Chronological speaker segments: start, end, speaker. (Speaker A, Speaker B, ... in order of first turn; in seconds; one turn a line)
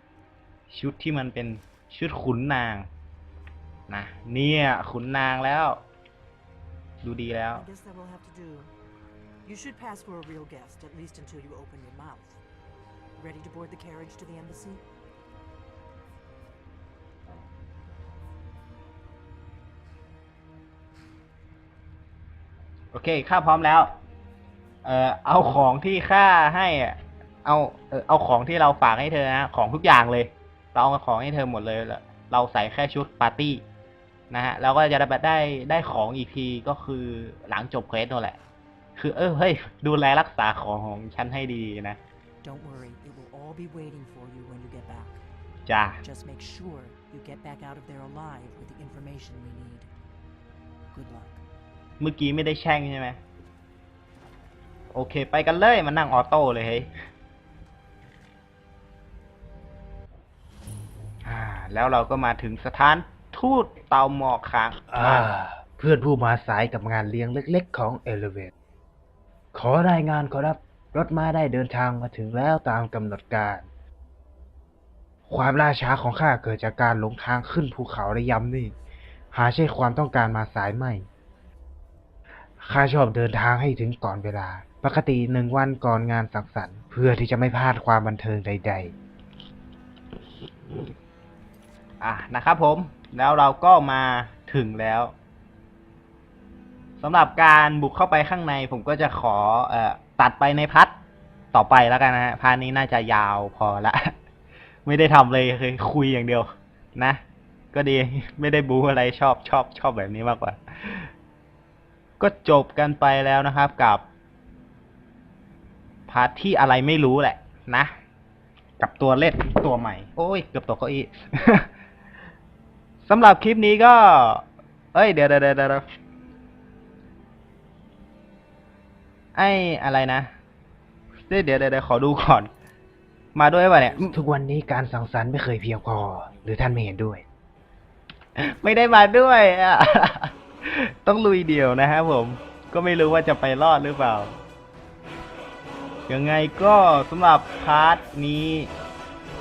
Speaker A: 0.7-2.9
Speaker A: 3.9-5.8
Speaker A: 7.0-7.7
Speaker B: 7.5-8.7
Speaker B: 9.4-12.4
Speaker B: 13.2-14.8
Speaker A: 22.9-23.9
Speaker A: 24.8-33.6
Speaker A: 34.3-38.4
Speaker A: 39.0-42.0
Speaker B: 42.4-45.2
Speaker A: 45.7-46.0
Speaker B: 46.0-49.9
Speaker B: 50.9-51.4
Speaker A: 52.0-53.2
Speaker A: 54.9-56.9
Speaker A: 61.2-65.3
Speaker C: 65.0-68.5
Speaker C: 69.5-73.7
Speaker C: 75.3-78.8
Speaker C: 79.3-81.1
Speaker C: 82.6-88.9
Speaker A: 92.0-95.1
Speaker A: 97.0-101.0
Speaker A: 101.5-104.1
Speaker A: 104.9-107.2
Speaker A: 107.7-111.1
Speaker A: 112.2-114.1
Speaker A: 116.1-117.9
Speaker A: 118.8-121.7
Speaker A: 123.0-125.8
Speaker A: 129.4-130.3
Speaker A: 131.2-132.5
Speaker A: 133.3-134.2
Speaker C: 134.0-137.2
Speaker A: 138.4-144.3
Speaker A: 146.1-148.7